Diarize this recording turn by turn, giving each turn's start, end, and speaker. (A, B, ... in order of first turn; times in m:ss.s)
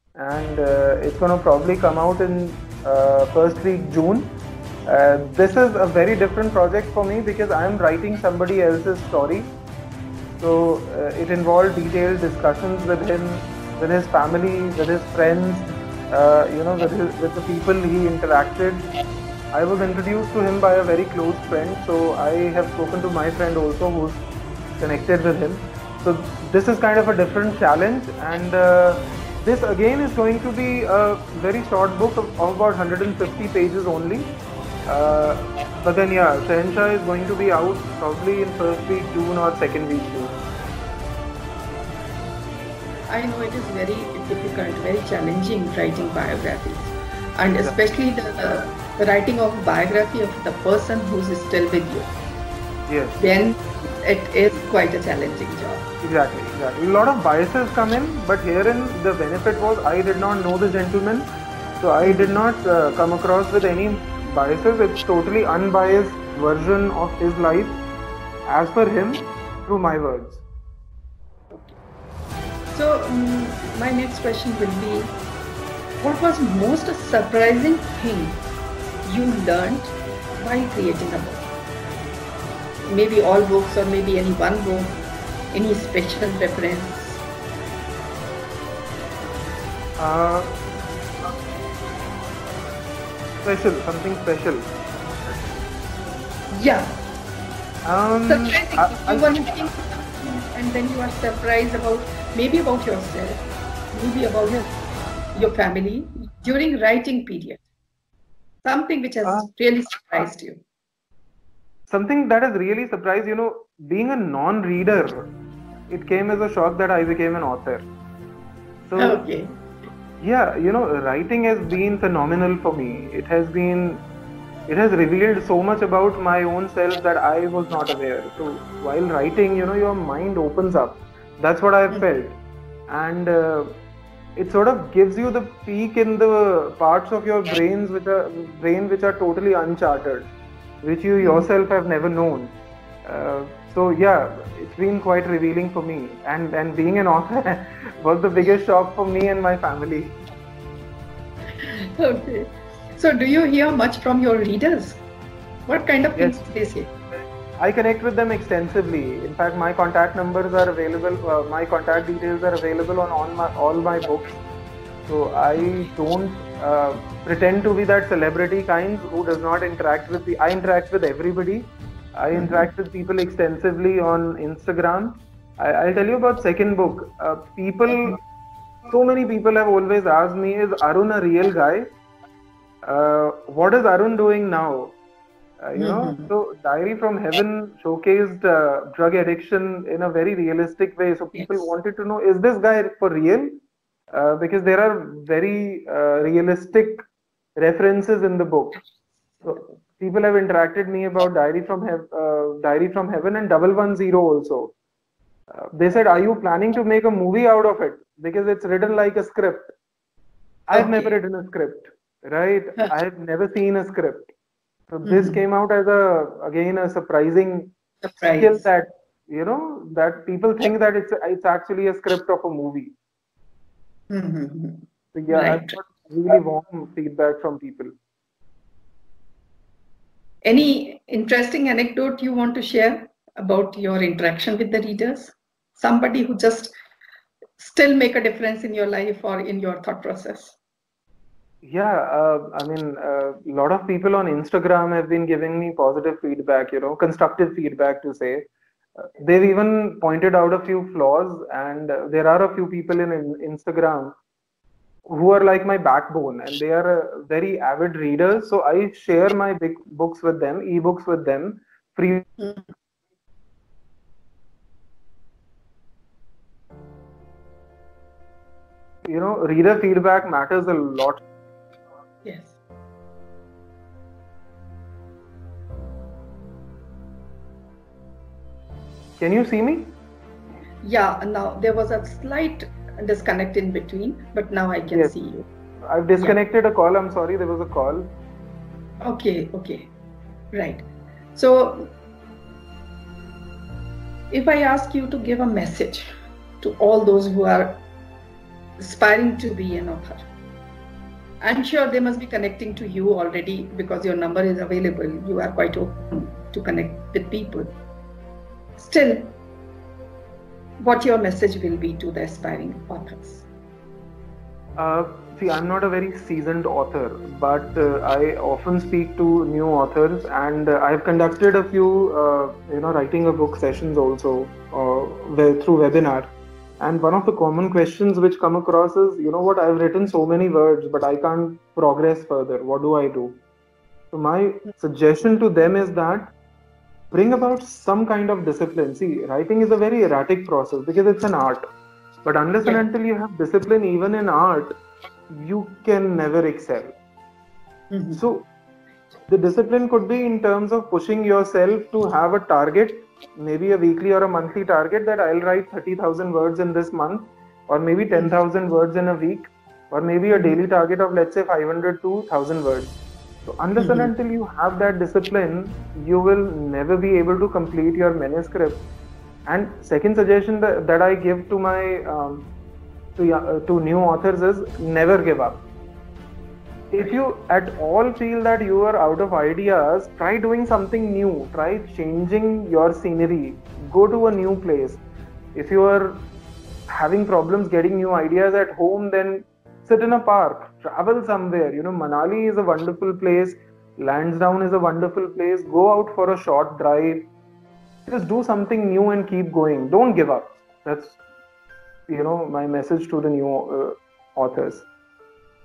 0:00.2-0:09.5 A
0:10.4-0:18.9 A
0:19.5-0:24.2 A
0:24.8-0:34.3 A
0:34.8-0:40.4 A
0:43.1-0:52.1 B
0:52.9-0:53.2 A
0:53.2-0:55.9 B
0:56.0-1:01.3 A
1:01.8-1:07.8 A
1:02.0-1:02.4 B
1:08.5-1:10.4 A
1:11.5-1:11.8 B
1:12.7-1:15.1 B
1:16.0-1:18.4 B
1:19.0-1:21.4 B
1:22.8-1:25.0 B
1:25.5-1:27.2 B
1:30.0-1:30.6 A
1:33.4-1:35.4 A
1:36.5-1:37.0 B
1:37.8-1:39.4 A
1:38.3-1:44.7 B
1:45.3-1:47.6 B
1:48.6-1:50.6 B
1:49.2-1:49.5 A
1:51.9-1:55.3 A
1:55.9-1:57.9 A
1:58.9-1:59.2 A
1:59.0-1:59.5 B
2:00.2-2:04.0 A
2:04.7-2:12.4 A
2:12.9-2:13.8 A
2:14.4-2:20.3 A
2:20.8-2:22.5 A
2:21.2-2:21.5 B
2:23.0-2:30.1 A
2:31.6-2:35.0 B
2:35.7-2:36.9 B
2:36.2-2:36.4 A
2:37.6-2:44.4 A
2:45.1-2:58.2 A
2:52.3-2:52.7 B
2:58.9-3:01.9 A
3:02.8-3:05.0 A
3:05.6-3:13.6 A
3:05.8-3:06.3 B
3:11.3-3:11.6 B
3:14.1-3:17.0 A
3:17.6-3:18.8 A
3:19.4-3:24.7 A
3:25.5-3:29.7 A
3:30.7-3:34.3 A
3:30.7-3:31.2 B
3:34.9-3:37.7 A
3:35.0-3:35.4 B
3:38.0-3:38.6 B
3:38.4-3:42.9 A
3:44.1-3:45.8 B
3:45.1-3:47.9 A
3:50.4-3:56.7 B
3:57.6-4:00.6 B
4:01.6-4:14.2 A
4:15.1-4:22.3 A
4:29.1-4:31.2 A
4:32.2-4:32.6 B
4:39.2-4:40.0 A
4:40.8-4:45.4 B
4:44.9-4:45.3 A
4:45.8-4:48.1 A
4:49.0-4:49.9 B
4:50.5-4:51.9 B
4:54.3-4:56.1 B
4:56.6-4:57.8 B
4:58.8-5:00.2 B
5:01.4-5:07.7 B
5:08.8-5:09.3 B
5:10.8-5:13.4 B
5:14.8-5:33.4 A
5:34.1-5:36.3 A
5:37.1-5:41.6 A
5:42.2-5:44.7 A
5:45.3-5:46.9 A
5:47.9-5:48.2 B
5:48.1-5:48.4 A
5:49.3-6:08.8 A
6:00.3-6:00.6 B
6:03.8-6:04.1 B
6:09.5-6:12.5 A
6:13.2-6:15.6 A
6:16.9-6:25.0 A
6:25.5-6:26.3 A
6:26.9-6:37.3 A
6:38.0-6:41.2 A
6:42.1-6:44.8 A